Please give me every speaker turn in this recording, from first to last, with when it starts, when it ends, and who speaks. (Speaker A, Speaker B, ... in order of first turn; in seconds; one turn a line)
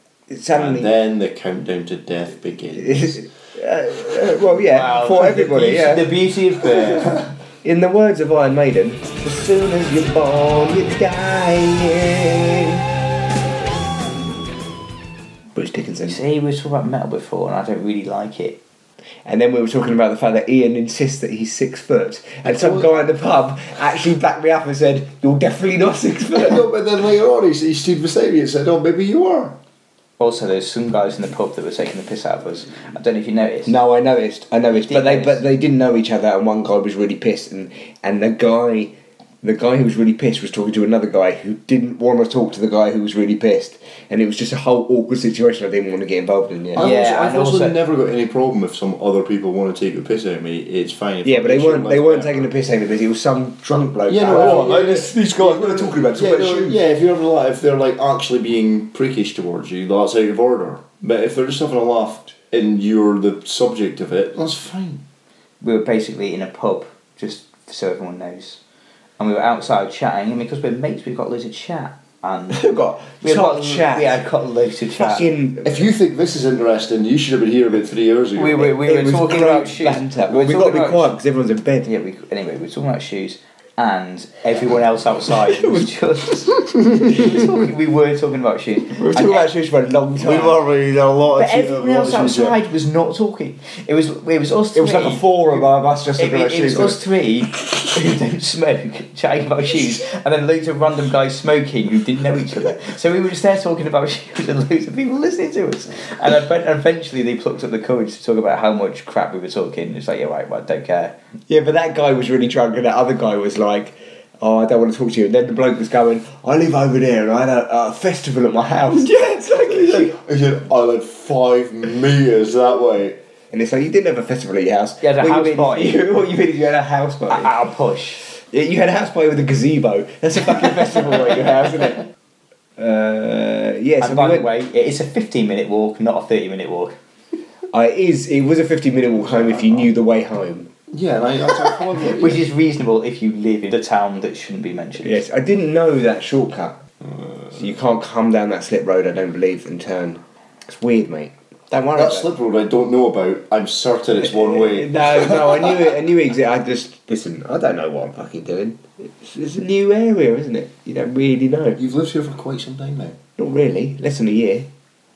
Speaker A: 0.3-0.9
Speaker B: 0.5-3.2
Speaker A: 2.8-6.1
Speaker C: 4.6-7.2
Speaker A: 7.6-12.8
Speaker A: 15.5-16.2
Speaker C: 16.0-18.6
Speaker A: 19.2-26.6
Speaker B: 22.4-22.9
Speaker B: 26.3-29.6
Speaker C: 30.2-33.7
Speaker A: 33.6-46.9
Speaker C: 34.9-35.4
Speaker B: 46.7-52.5
Speaker C: 46.8-47.8
Speaker A: 51.2-56.8
Speaker B: 54.1-65.0
Speaker C: 65.6-68.6
Speaker C: 69.2-72.6
Speaker A: 72.5-74.2
Speaker C: 73.2-75.3
Speaker A: 74.9-75.9
Speaker B: 75.6-78.7
Speaker C: 78.3-81.1
Speaker A: 78.8-81.9
Speaker C: 81.8-89.4
Speaker A: 85.5-85.8
Speaker A: 88.9-90.6
Speaker B: 90.2-92.5
Speaker C: 91.3-111.1
Speaker A: 94.7-97.0
Speaker A: 111.5-120.2
Speaker B: 119.9-123.2
Speaker A: 123.5-127.5
Speaker C: 125.0-126.0
Speaker C: 127.3-128.2
Speaker A: 128.3-132.0
Speaker A: 132.8-134.5
Speaker C: 134.0-136.9
Speaker A: 137.7-140.7
Speaker B: 139.2-139.9
Speaker B: 140.9-142.4
Speaker C: 141.9-145.2
Speaker A: 145.0-146.8
Speaker B: 147.0-147.6
Speaker A: 147.5-152.3
Speaker B: 151.9-155.9
Speaker A: 154.2-161.8
Speaker B: 161.8-163.2
Speaker A: 163.4-164.7